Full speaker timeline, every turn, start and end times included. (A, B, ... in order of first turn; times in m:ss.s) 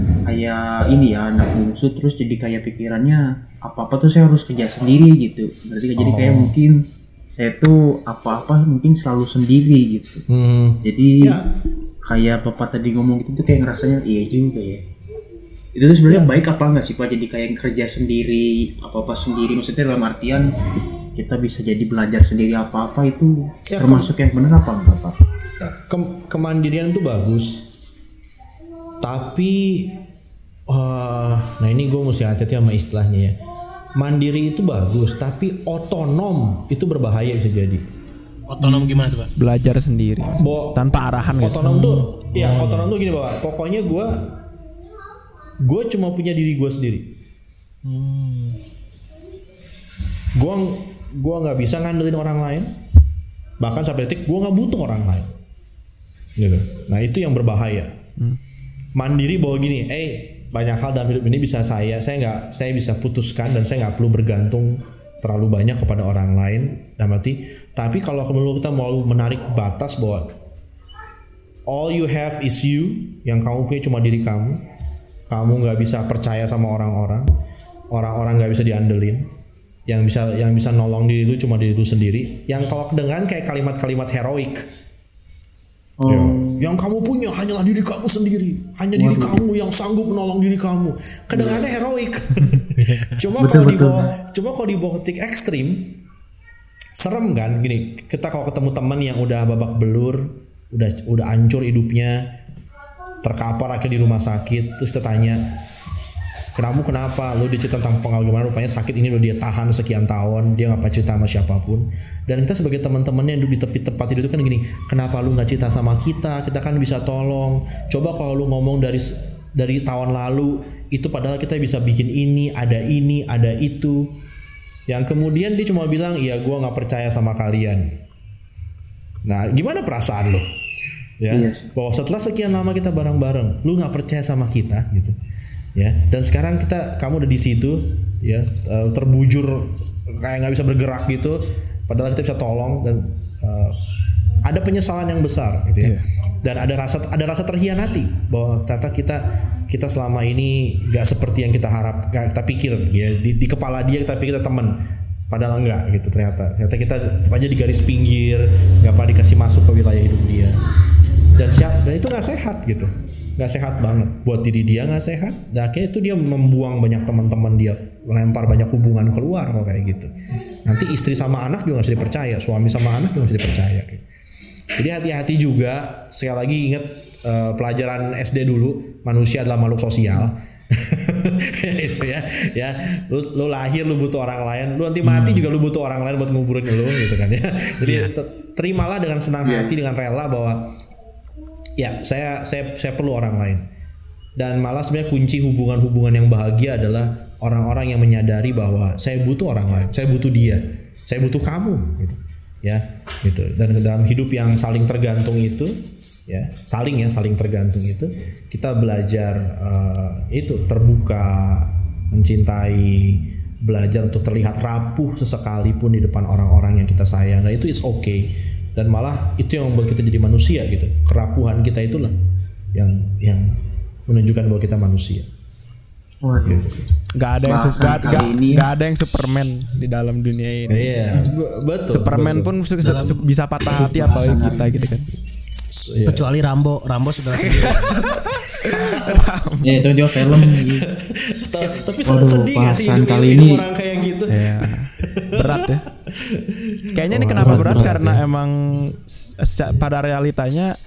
0:00.2-0:10.2 A
0:06.0-0:06.6 B
0:10.3-0:11.5 B
0:10.8-0:11.4 A
0:12.1-0:14.8 A
0:15.8-0:20.5 A
0:16.1-0:16.4 B
0:21.2-0:25.2 A
0:23.7-0:24.1 B
0:25.6-0:27.7 B
0:29.0-0:30.0 B
0:30.7-0:33.4 B
0:34.0-0:37.8 B
0:38.5-0:39.3 C
0:38.8-0:39.1 B
0:39.4-0:41.8 D
0:40.4-0:44.3 B
0:41.6-0:42.9 C
0:45.6-0:47.2 B
0:47.8-0:48.6 C
0:50.4-0:52.7 B
0:53.6-0:55.3 B
0:56.4-0:58.0 B
0:59.0-1:10.3 B
1:11.7-1:14.6 B
1:15.3-1:17.3 B
1:17.9-1:19.3 B
1:19.9-1:24.7 B
1:26.0-1:26.7 A
1:26.1-1:36.0 B
1:29.0-1:29.4 A
1:31.4-1:31.6 A
1:32.8-1:33.2 C
1:33.4-1:34.1 A
1:37.0-1:42.3 B
1:43.2-1:45.4 B
1:46.6-2:04.1 B
2:04.9-2:08.0 B
2:09.2-2:10.5 B
2:11.2-2:15.2 B
2:11.3-2:11.7 A
2:15.8-2:23.8 B
2:24.4-2:34.8 B
2:35.3-2:40.6 B
2:41.4-2:50.1 B
2:50.6-2:54.0 B
2:54.8-3:10.8 B
3:05.0-3:05.5 C
3:07.8-3:08.1 C
3:09.4-3:09.7 A
3:11.8-3:13.6 B
3:14.4-3:25.8 B
3:26.3-3:42.2 B
3:42.7-3:45.3 B
3:46.2-3:46.7 A
3:46.4-3:46.9 B
3:47.1-3:51.3 D
3:47.4-3:48.7 A
3:50.7-3:52.9 B
3:51.9-3:55.1 D
3:52.8-3:53.2 C
3:53.7-3:54.8 A
3:55.7-3:56.3 B
3:56.1-3:58.1 C
3:57.3-3:59.9 D
3:58.6-3:59.3 B
3:59.6-4:00.9 A
4:00.3-4:08.2 B
4:01.6-4:02.0 C
4:02.0-4:03.6 A
4:04.3-4:05.8 D
4:06.9-4:10.8 D
4:07.4-4:08.2 A